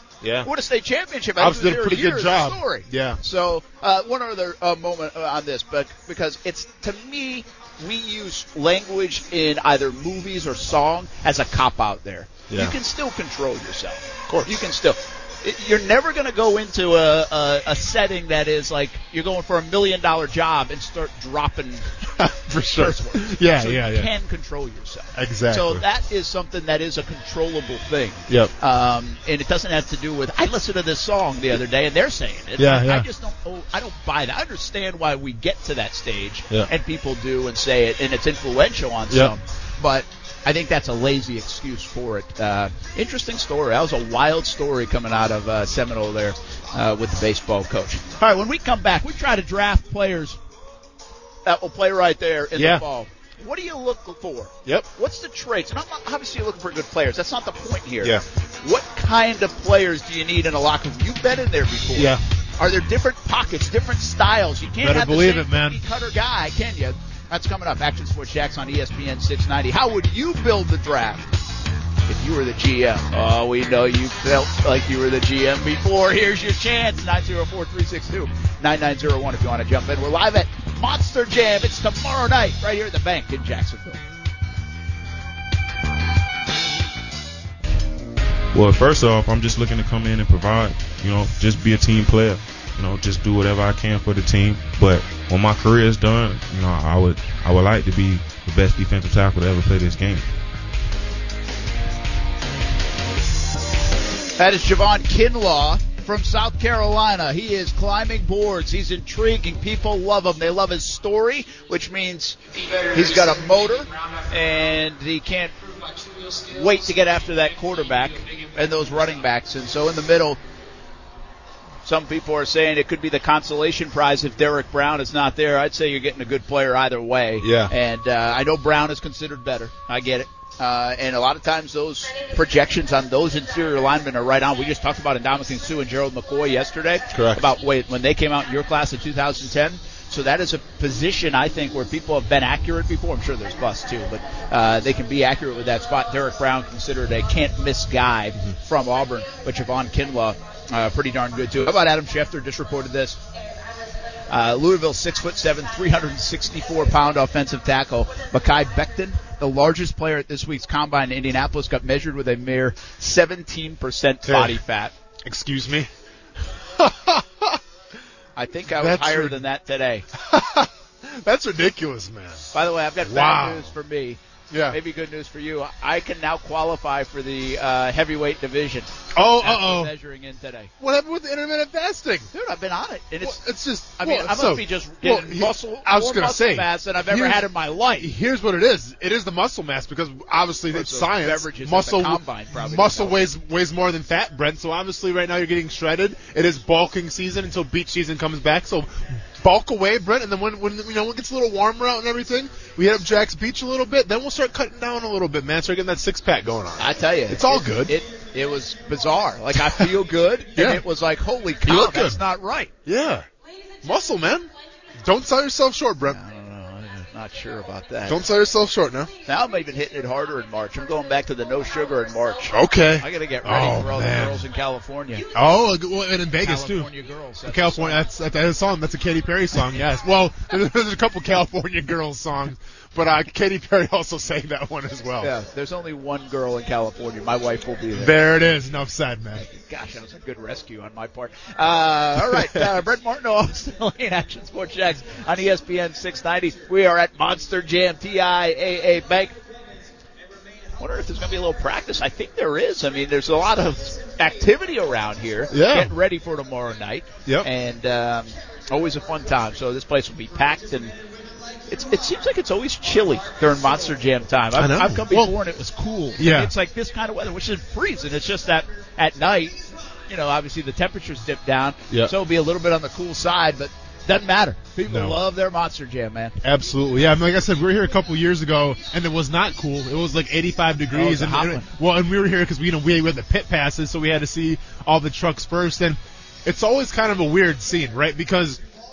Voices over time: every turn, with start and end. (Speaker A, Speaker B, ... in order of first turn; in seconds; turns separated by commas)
Speaker A: 0.2-0.5, Speaker B: 0.4-21.9, Speaker A: 1.4-3.2, Speaker A: 12.5-12.7, Speaker A: 14.3-14.5, Speaker A: 22.2-24.1, Speaker B: 22.7-50.4, Speaker A: 25.1-25.8, Speaker A: 32.6-33.1, Speaker B: 51.4-71.3, Speaker A: 52.5-52.8, Speaker A: 61.9-62.2, Speaker A: 64.8-65.8, Speaker B: 72.0-84.0, Speaker C: 88.5-100.3, Speaker B: 104.4-115.5, Speaker B: 116.4-120.4, Speaker B: 121.8-153.2, Speaker A: 127.4-127.7, Speaker A: 137.1-137.4, Speaker B: 154.3-164.9, Speaker A: 164.2-164.6, Speaker A: 165.2-165.9, Speaker A: 166.5-167.6, Speaker B: 168.3-170.1, Speaker A: 168.7-169.4, Speaker A: 170.1-172.5, Speaker B: 172.5-180.7, Speaker A: 173.0-173.7, Speaker A: 174.5-174.8, Speaker A: 179.1-179.9, Speaker A: 180.8-182.3, Speaker B: 182.3-183.4, Speaker A: 183.2-207.9, Speaker B: 184.0-188.1, Speaker B: 190.7-193.2, Speaker B: 206.8-212.7, Speaker A: 209.6-209.9, Speaker A: 210.5-210.8, Speaker A: 211.6-212.2, Speaker A: 212.8-213.3, Speaker A: 213.8-216.2, Speaker B: 216.1-218.2, Speaker A: 218.1-219.1, Speaker B: 219.2-225.3, Speaker A: 222.5-224.5, Speaker A: 225.3-226.9, Speaker B: 226.4-228.0, Speaker A: 227.4-235.3, Speaker B: 235.2-238.3, Speaker A: 237.9-239.4, Speaker B: 239.3-249.3, Speaker A: 242.2-242.6, Speaker B: 250.8-260.9, Speaker A: 255.5-255.9, Speaker B: 261.7-276.4, Speaker A: 264.6-265.3, Speaker A: 266.2-266.5, Speaker A: 274.8-275.2, Speaker A: 276.4-288.6, Speaker B: 280.9-281.7